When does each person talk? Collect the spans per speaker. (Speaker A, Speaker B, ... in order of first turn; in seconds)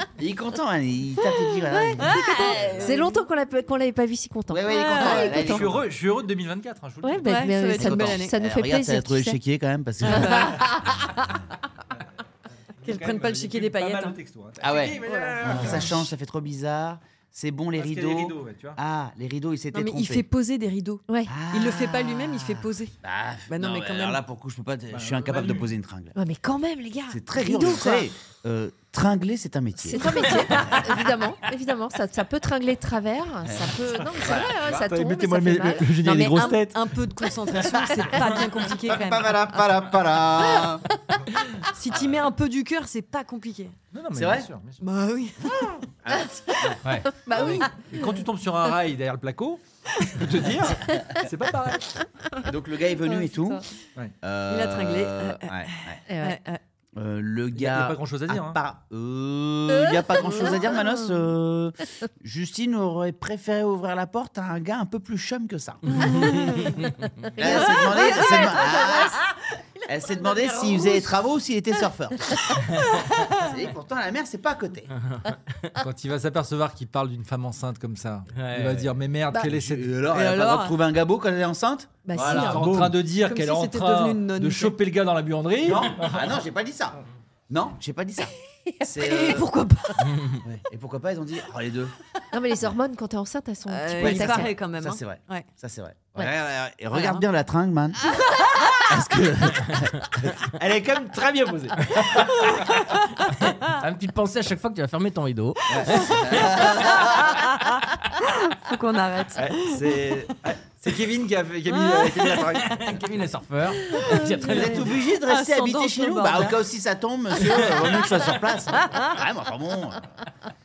Speaker A: 0.2-2.6, 4.5-5.8, 7.7-10.5, 14.6-20.3, 21.3-26.2, 27.1-30.9, 33.5-34.8, 38.5-40.9, 44.1-44.5, 46.0-46.8, 47.3-47.7, 52.4-53.6, 54.2-56.0, 57.0-66.4, 67.4-69.2, 69.9-74.9, 79.4-82.5, 85.6-88.3, 88.8-89.5, 90.4-91.9, 93.9-100.3, 105.7-107.0, 114.4-120.0
Speaker B: 1.7-3.2, 4.7-5.3, 7.2-8.3, 10.0-10.6, 12.8-14.2, 15.1-15.9, 19.7-22.9, 23.5-24.2, 36.0-39.7, 41.7-43.8, 44.8-45.8, 54.5-56.6, 65.9-66.7, 67.5-68.5, 72.8-73.3, 80.1-80.8, 83.2-84.8, 88.8-90.1, 93.7-95.5, 96.9-97.2, 106.6-107.6, 108.2-109.9, 111.7-112.4, 113.9-116.6
Speaker C: 2.0-3.1, 5.0-7.5, 12.8-16.1, 17.8-18.8, 24.9-25.7, 34.6-36.8, 43.9-44.8, 47.3-52.1, 57.5-58.6, 75.8-80.1, 82.1-86.3, 100.5-102.8, 109.4-112.8
Speaker D: 2.1-5.7, 7.0-9.4, 10.1-11.0, 21.1-21.4, 26.2-28.1, 29.8-36.4, 38.1-38.4, 47.3-47.6, 53.0-53.6, 56.1-56.4, 59.9-60.7, 66.9-68.9, 70.2-70.9, 82.0-82.8, 92.3-94.6
Speaker E: 46.8-47.2, 66.1-66.8, 74.9-75.7, 78.3-78.9, 103.3-107.1, 112.6-114.9